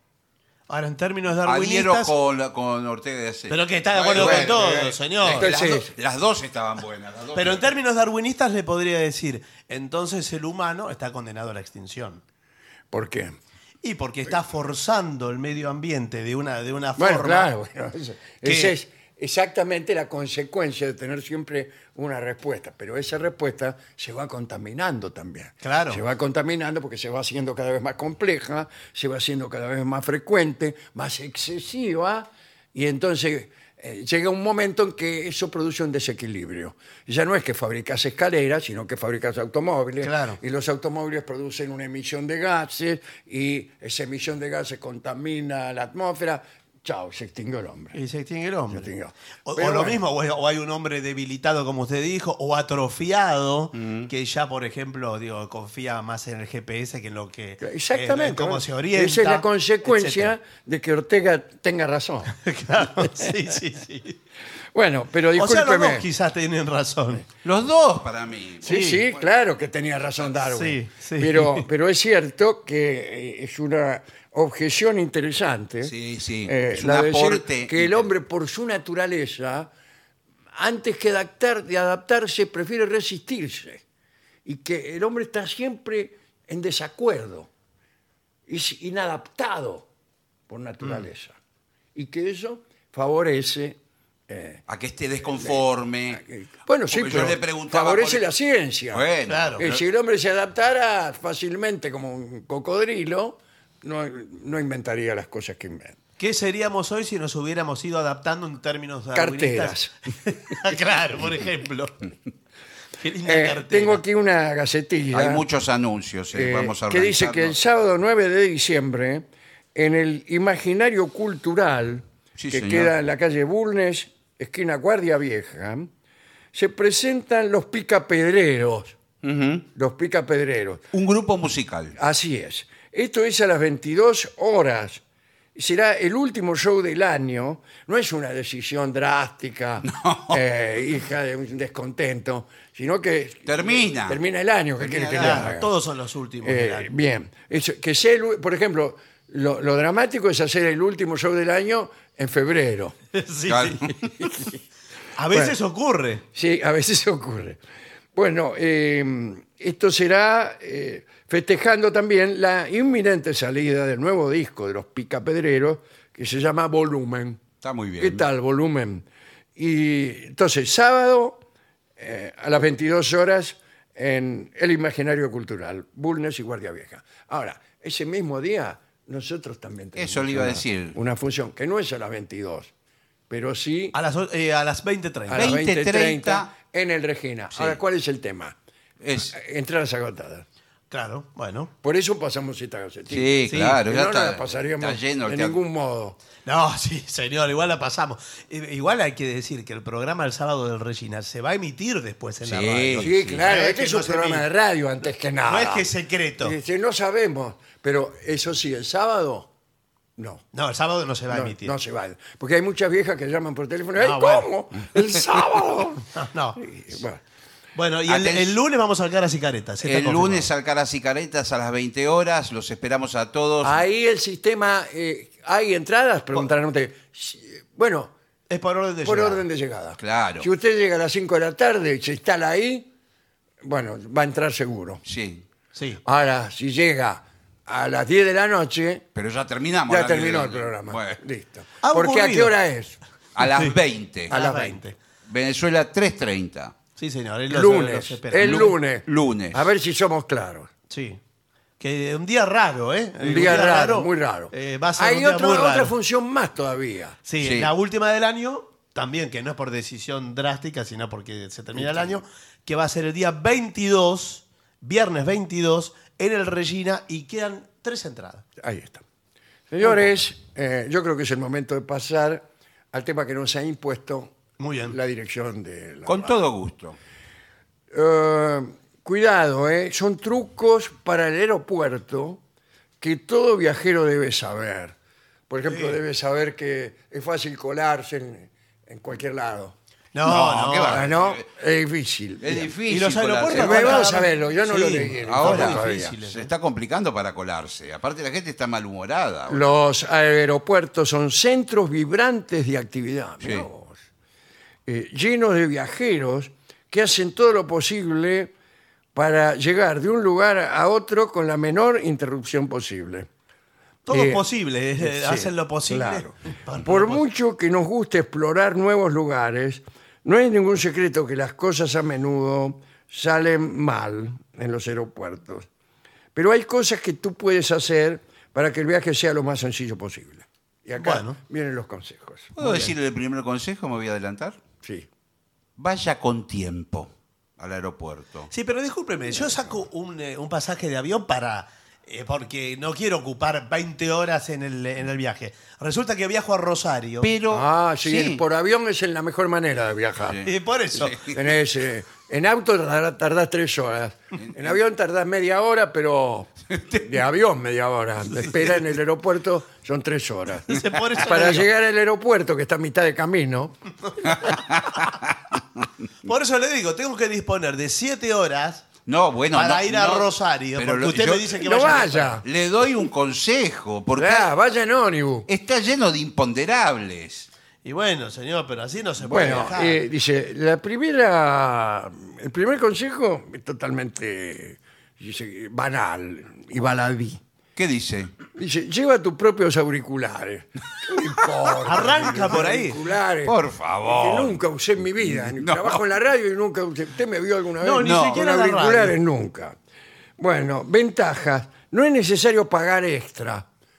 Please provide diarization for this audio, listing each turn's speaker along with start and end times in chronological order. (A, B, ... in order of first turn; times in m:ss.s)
0:00.7-0:02.1 A
0:01.4-0:07.7 B
0:03.5-0:05.6 A
0:04.2-0:05.9 C
0:07.4-0:12.2 A
0:12.9-0:13.4 C
0:13.8-0:17.5 A
0:17.0-0:48.0 C
0:18.4-0:18.7 A
0:25.6-0:26.0 A
0:40.0-0:40.4 A
0:47.9-0:48.9 A
0:48.7-0:50.0 C
0:49.5-1:00.3 A
0:53.8-0:54.1 B
0:57.6-1:02.4 C
1:02.4-1:04.2 A
1:03.0-1:03.3 C
1:04.7-1:06.1 C
1:05.4-1:07.2 A
1:07.4-1:08.7 B
1:08.6-1:19.7 C
1:08.6-1:09.0 A
1:10.5-1:11.7 A
1:15.8-1:18.1 B
1:20.5-1:23.8 C
1:24.5-1:27.5 C
1:28.5-1:29.9 C
1:30.5-1:31.4 C
1:32.0-1:34.6 C
1:34.7-1:36.2 B
1:36.1-1:39.1 C
1:36.9-1:38.2 B
1:38.9-1:39.8 B
1:39.3-1:39.6 A
1:39.6-1:46.0 C
1:46.2-1:52.0 A
1:49.2-1:50.0 C
1:53.0-1:54.0 A
1:53.2-1:55.4 C
1:55.1-1:57.6 B
1:56.3-2:05.9 C
2:02.4-2:02.9 B
2:06.5-2:09.0 C
2:09.2-2:09.7 B
2:09.8-2:10.8 C
2:10.9-2:12.0 B
2:12.0-2:15.0 C
2:15.6-2:25.7 C
2:19.8-2:20.4 B
2:23.5-2:24.2 B
2:24.8-2:25.5 B
2:25.1-2:26.9 A
2:26.4-2:33.0 C
2:33.1-2:33.9 A
2:33.5-2:34.0 B
2:34.2-2:34.6 C
2:35.2-2:36.2 A
2:35.3-2:35.6 C
2:36.3-2:37.6 C
2:38.1-2:47.4 C
2:47.6-2:48.3 B
2:48.0-2:49.0 C
2:49.6-2:51.4 C
2:52.0-3:02.7 C
3:00.0-3:01.0 B
3:03.3-3:04.0 C
3:03.9-3:05.5 A
3:05.3-3:08.6 C
3:05.3-3:06.5 B
3:07.5-3:07.8 B
3:09.0-3:09.3 B
3:09.2-3:10.4 C
3:10.9-3:11.7 A
3:11.8-3:16.2 C
3:13.1-3:15.6 B
3:13.5-3:13.8 A
3:16.4-3:24.5 A
3:22.4-3:23.4 B
3:23.0-3:25.9 C
3:25.5-3:26.6 A
3:26.4-3:29.5 C
3:30.2-3:30.4 C
3:30.5-3:31.7 A
3:31.3-3:37.2 C
3:34.0-3:34.5 A
3:36.1-3:36.6 A
3:37.8-3:40.5 A
3:38.1-3:38.6 B
3:39.8-3:43.8 B
3:43.6-3:48.1 C
3:48.5-3:49.4 A
3:49.0-3:52.9 C
3:50.0-3:50.5 B
3:53.6-3:55.0 C
3:55.0-3:55.5 B
3:55.7-3:56.0 A
3:56.0-3:59.0 C
3:59.2-4:01.2 B
3:59.9-4:03.0 C
4:01.8-4:02.5 A
4:03.4-4:04.3 B
4:04.3-4:04.8 C
4:04.3-4:05.0 A
4:05.3-4:06.8 B
4:07.0-4:08.8 A
4:07.5-4:10.7 C
4:08.4-4:09.7 B
4:10.9-4:11.2 A
4:11.8-4:15.9 A
4:13.2-4:17.2 C
4:17.3-4:28.4 A
4:17.4-4:17.7 B
4:21.8-4:22.2 C
4:28.6-4:29.0 C
4:29.7-4:36.4 C
4:34.6-4:35.0 A
4:36.1-4:37.0 B
4:37.9-4:42.4 C
4:43.0-4:45.0 C
4:45.5-4:49.8 C
4:45.7-4:46.0 A
4:50.1-4:51.1 A
4:50.2-4:51.5 B
4:50.9-4:52.7 C
4:52.4-4:54.1 B
4:52.9-4:56.5 A
4:53.5-4:56.2 C
4:55.2-4:59.6 B
4:59.5-5:04.0 C
5:03.4-5:03.7 B
5:04.9-5:08.5 C
5:09.2-5:13.3 C
5:14.1-5:17.2 A
5:14.1-5:25.7 C
5:26.4-5:32.9 C
5:31.0-5:31.4 A
5:32.6-5:34.6 B
5:34.8-5:35.1 C
5:35.8-5:38.5 B
5:38.5-5:47.3 A
5:47.2-5:48.4 B
5:47.5-5:50.4 C
5:50.3-5:51.4 B
5:50.4-5:51.3 A
5:51.3-6:03.8 C
5:54.4-5:54.7 B
5:56.7-5:57.1 B
6:00.7-6:01.7 A
6:04.4-6:05.6 B
6:06.2-6:08.9 A
6:09.1-6:14.5 B
6:09.5-6:12.4 A
6:11.6-6:12.4 C
6:14.2-6:15.5 C
6:15.5-6:17.5 B
6:17.8-6:20.0 A
6:19.2-6:19.7 B
6:19.3-6:27.4 C
6:27.8-6:28.3 B
6:28.6-6:39.8 C
6:31.8-6:33.0 A
6:33.4-6:34.6 B
6:35.2-6:36.0 B
6:37.8-6:39.2 A
6:38.0-6:38.4 B
6:40.4-6:43.7 C